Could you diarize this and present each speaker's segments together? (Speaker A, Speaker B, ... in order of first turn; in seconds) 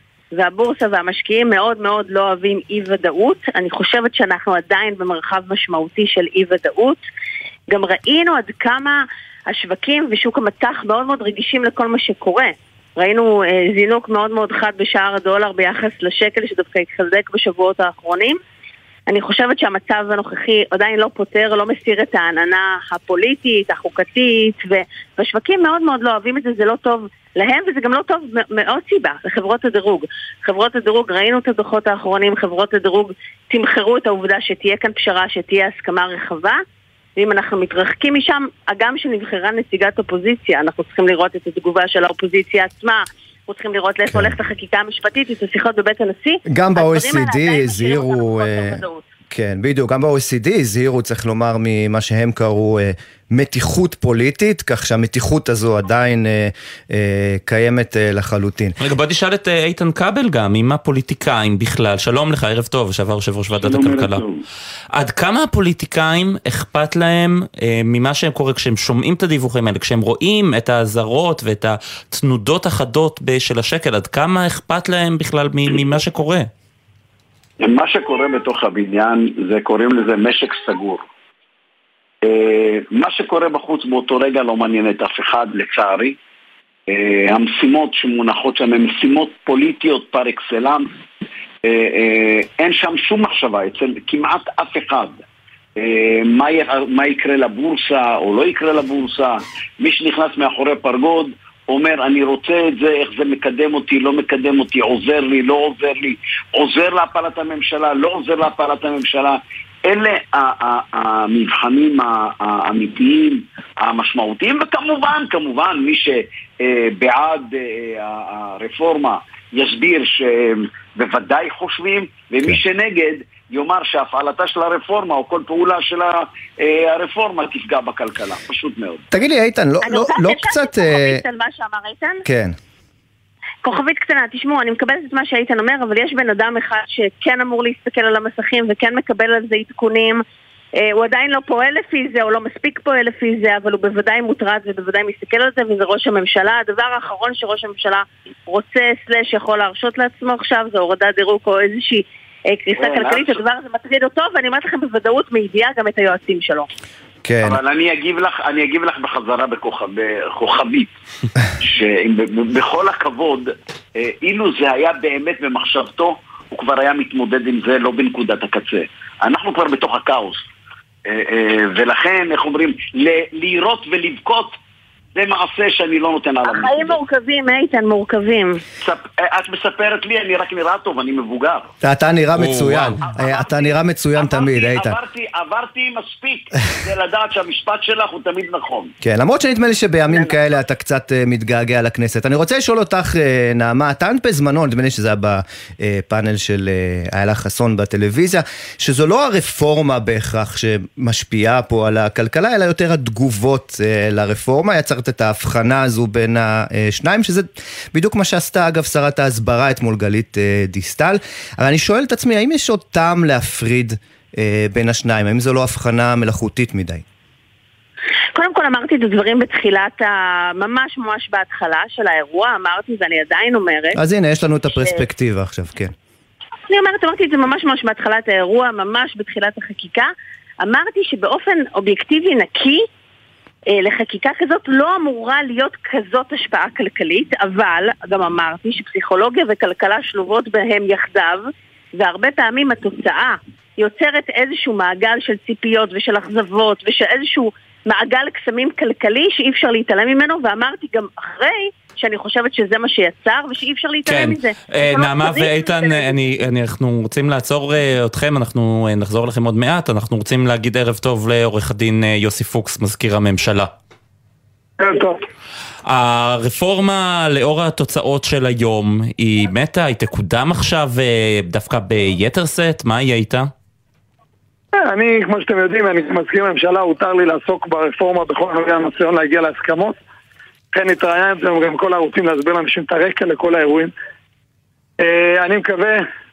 Speaker A: 0.3-7.0, 7.7-18.4, 19.1-36.6, 37.2-49.0, 129.8-132.2, 133.6-140.2, 140.8-156.7, 176.4-178.6, 218.4-224.0, 226.7-230.1, 230.6-232.8, 233.7-241.4, 242.0-256.2
Speaker B: 44.1-44.4, 46.5-58.8, 129.1-131.2, 132.3-132.6, 157.2-157.6, 181.8-185.0, 189.0-217.0, 224.0-225.9
Speaker C: 58.8-64.2, 64.9-76.5, 182.4-183.0, 254.1-263.7, 265.9-273.5
Speaker D: 63.6-64.4, 77.6-81.0, 82.2-86.2, 86.9-90.9, 91.6-95.2, 95.8-129.0, 152.8-153.4, 157.4-160.9, 161.6-170.4, 171.1-174.6, 175.2-177.0, 178.8-181.7, 183.0-188.9
Speaker E: 264.8-265.2, 274.8-280.0, 280.7-283.9, 285.0-286.1